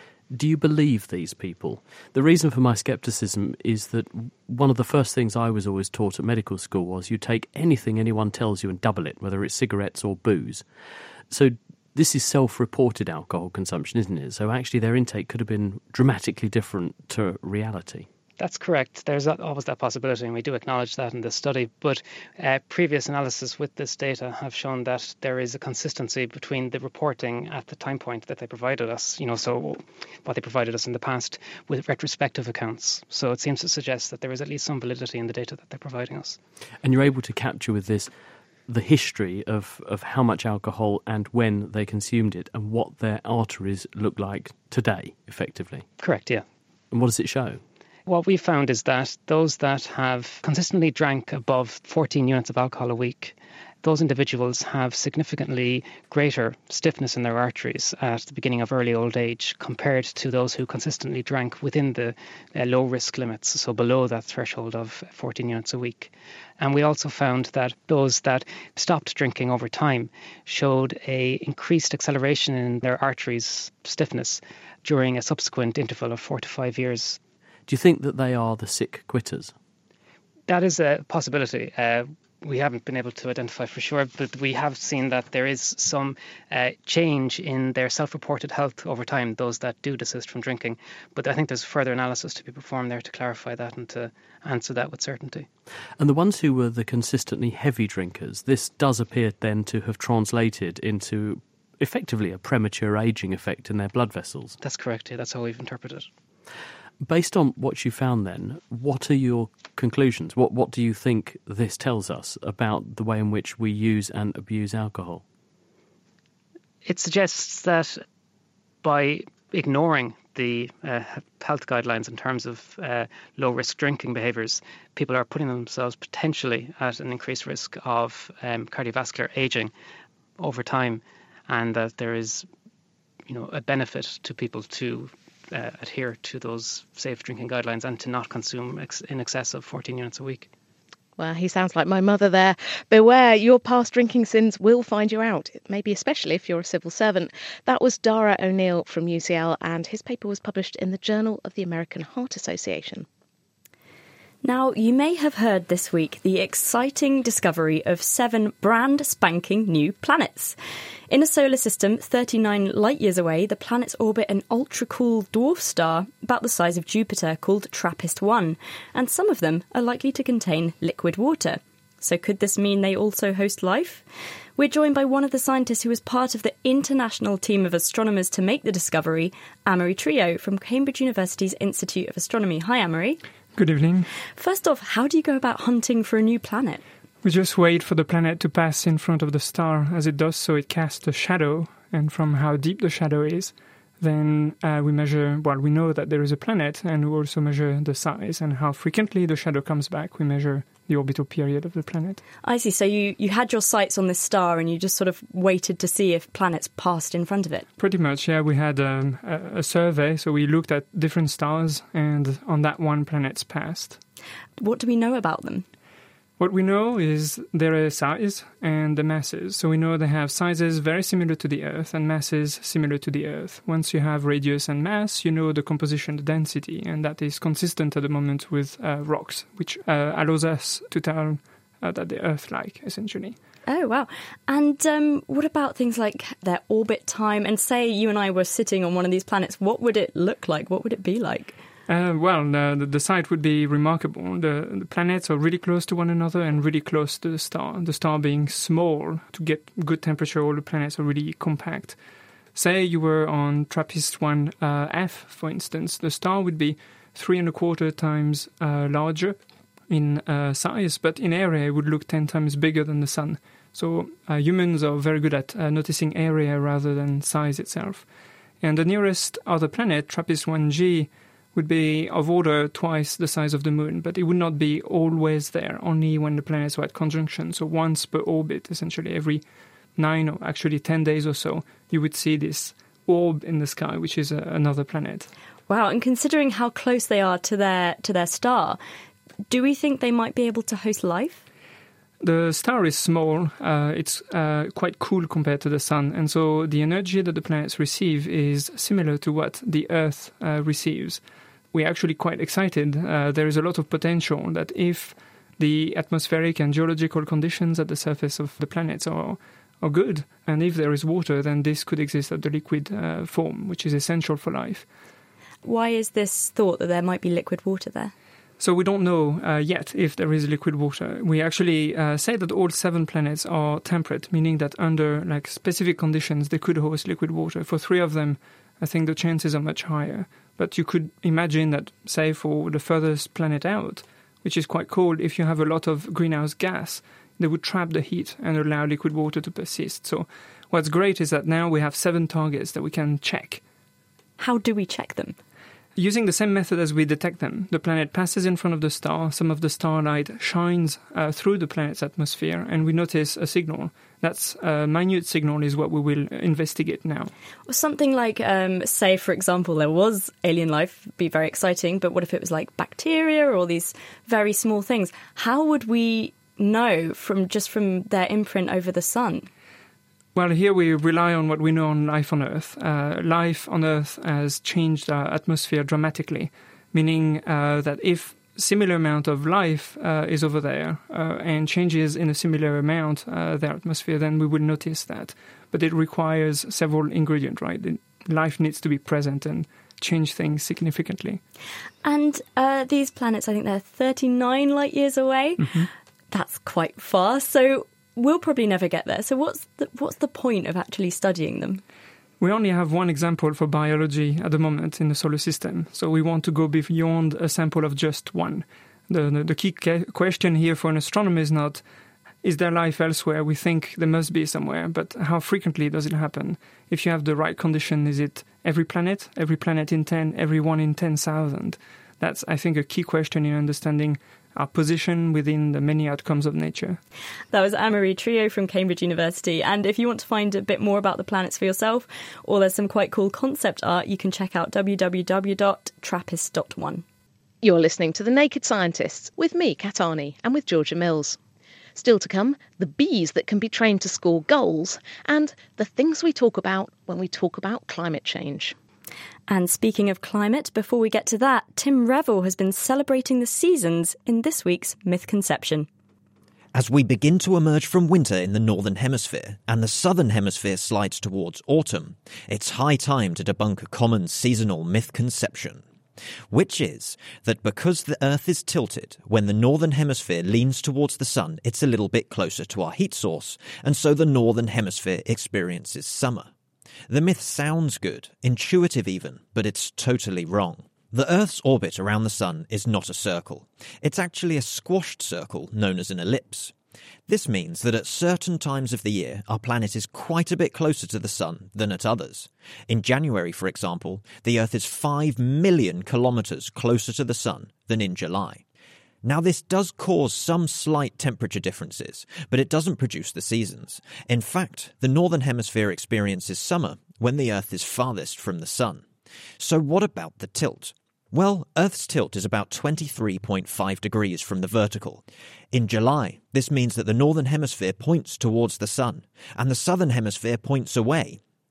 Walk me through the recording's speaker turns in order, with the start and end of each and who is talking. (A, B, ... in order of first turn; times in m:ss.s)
0:00.3-0:10.6 A
0:11.3-0:18.1 A
0:18.4-0:36.4 B
0:36.8-0:38.1 A
0:38.7-0:45.8 A
0:46.0-0:46.4 B
0:46.9-0:47.6 A
0:48.1-1:17.2 B
1:17.7-1:19.5 A
1:20.5-1:35.5 B
1:36.0-1:44.6 A
1:44.6-1:46.1 B
1:47.0-1:55.2 A
1:56.8-1:58.0 B
1:58.8-2:09.7 B
2:10.4-2:12.4 B
2:13.3-2:20.5 B
2:21.2-2:33.0 C
2:34.4-2:40.6 D
2:41.1-2:54.0 D
2:54.6-3:03.2 D
3:03.5-3:04.1 E
3:04.4-3:06.8 D
3:07.2-3:22.2 E
3:22.4-3:27.7 D
3:27.8-3:34.0 E
3:34.6-3:35.6 D
3:36.4-3:53.4 E
3:53.7-4:01.5 D
4:01.9-4:12.0 E
4:12.5-4:28.1 E
4:28.6-4:39.4 E
4:40.0-4:45.3 E
4:45.7-4:48.8 D
4:49.5-4:51.4 D
4:52.2-5:14.9 E
5:15.6-5:18.1 D
5:18.6-5:43.6 E
5:44.4-5:45.4 D
5:46.0-5:57.3 E
5:57.7-6:09.5 D
6:10.3-6:31.4 E
6:32.0-6:41.8 D
6:35.6-6:35.9 E
6:42.4-6:51.8 E
6:52.4-7:07.0 E
7:07.5-7:17.0 D
7:17.6-7:21.4 C
7:22.0-7:28.7 C
7:29.5-7:35.9 D
7:36.7-7:45.8 F
7:46.5-7:56.5 F
7:57.1-8:06.7 F
8:07.3-8:18.6 F
8:19.2-8:29.0 F
8:29.6-8:41.4 F